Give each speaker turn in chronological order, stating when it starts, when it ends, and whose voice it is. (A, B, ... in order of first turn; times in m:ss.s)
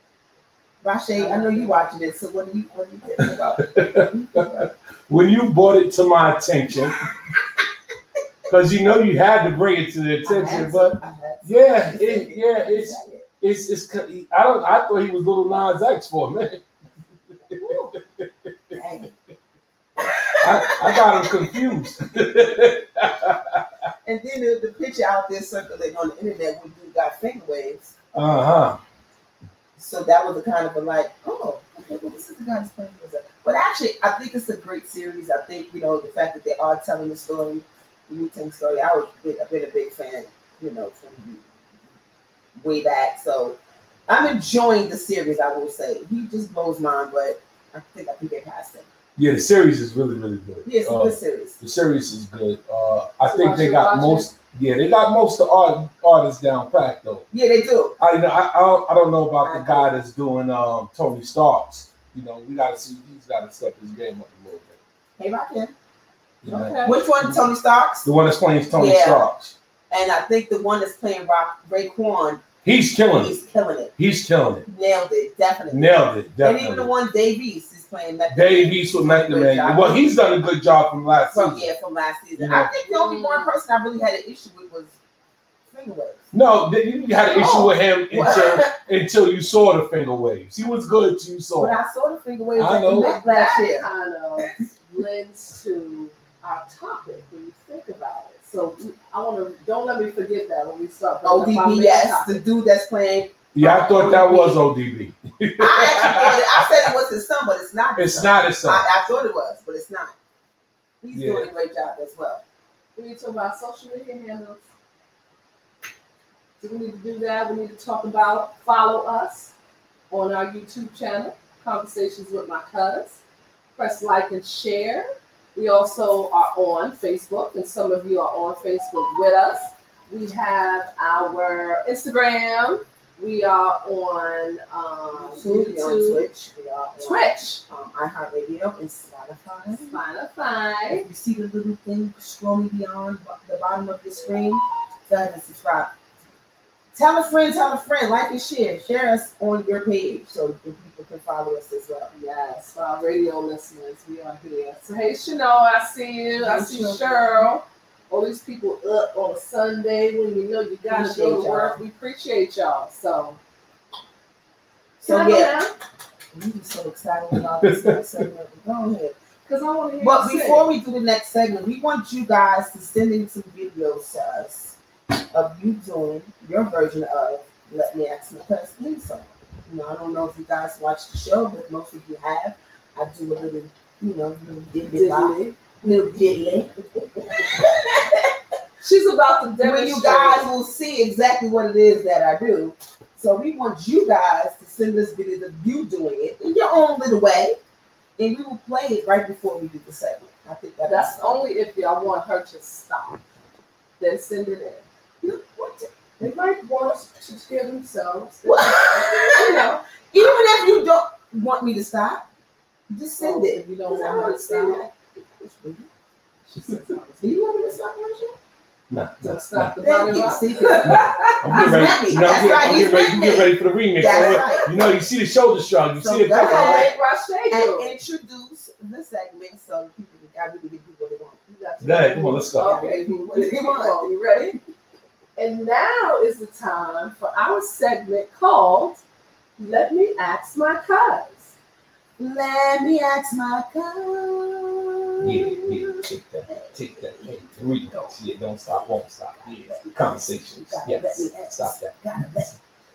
0:00.8-0:04.6 A
0:01.1-0:01.8 B
0:03.6-0:07.1 C
0:08.5-0:16.6 C
0:10.2-0:13.3 A
0:17.6-0:18.0 B
0:18.7-0:19.1 A
0:20.0-0:21.7 A
0:20.4-0:23.6 C
0:24.0-0:27.9 A
0:28.1-0:28.8 C
0:29.8-0:41.5 A
0:42.6-0:48.9 A
0:49.2-0:57.3 C
0:50.6-0:51.6 A
0:53.3-0:54.3 B
0:57.3-0:58.0 A
0:58.0-1:04.8 C
0:59.4-0:59.9 A
1:05.2-1:05.7 A
1:06.4-1:07.4 C
1:06.5-1:07.0 B
1:06.8-1:08.1 A
1:08.0-1:09.5 C
1:08.7-1:09.3 A
1:09.9-1:12.5 A
1:12.6-1:13.4 C
1:13.2-1:13.9 A
1:14.0-1:14.7 C
1:14.7-1:20.1 A
1:15.7-1:16.9 C
1:18.3-1:21.7 C
1:21.3-1:25.0 A
1:22.4-1:22.7 C
1:22.8-1:23.6 B
1:25.7-1:26.3 A
1:26.3-1:31.8 C
1:27.4-1:27.7 B
1:28.1-1:28.7 A
1:31.6-1:33.9 A
1:32.6-1:33.2 C
1:32.9-1:42.4 B
1:41.2-1:44.6 A
1:43.5-1:46.9 C
1:45.6-1:50.1 A
1:48.0-1:48.9 C
1:51.0-1:52.4 A
1:51.1-1:51.5 C
1:53.0-1:54.6 B
1:56.6-1:59.5 B
2:00.1-2:03.2 B
2:03.8-2:16.3 B
2:15.1-2:20.0 A
2:17.0-2:17.6 B
2:19.8-2:21.1 B
2:20.9-2:25.9 A
2:27.0-2:32.1 A
2:32.1-2:43.4 B
2:36.4-2:37.5 A
2:40.9-2:41.8 A
2:45.0-2:45.6 A
2:45.0-2:45.8 B
2:46.3-2:49.2 A
2:47.6-2:47.9 C
2:49.5-2:50.7 B
2:50.0-2:54.8 A
2:55.3-3:08.3 A
3:04.9-3:05.6 B
3:08.8-3:10.5 B
3:09.6-3:17.6 A
3:18.2-3:21.4 A
3:20.9-3:23.2 B
3:24.0-3:24.8 B
3:25.2-3:25.9 A
3:26.2-3:29.8 B
3:28.4-3:32.2 A
3:32.9-3:35.9 A
3:33.2-3:34.8 B
3:36.5-3:37.5 B
3:36.7-3:38.4 A
3:38.9-3:39.8 C
3:39.2-3:42.4 B
3:39.8-3:44.7 A
3:40.8-3:46.9 C
3:44.0-3:44.7 B
3:46.0-3:47.0 A
3:46.3-3:47.9 B
3:47.5-3:51.4 A
3:51.5-3:54.6 B
3:51.8-3:52.8 C
3:52.6-3:54.6 A
3:55.4-3:59.0 B
3:59.6-4:01.5 B
4:02.2-4:07.4 A
4:05.2-4:11.9 C
4:09.5-4:12.6 A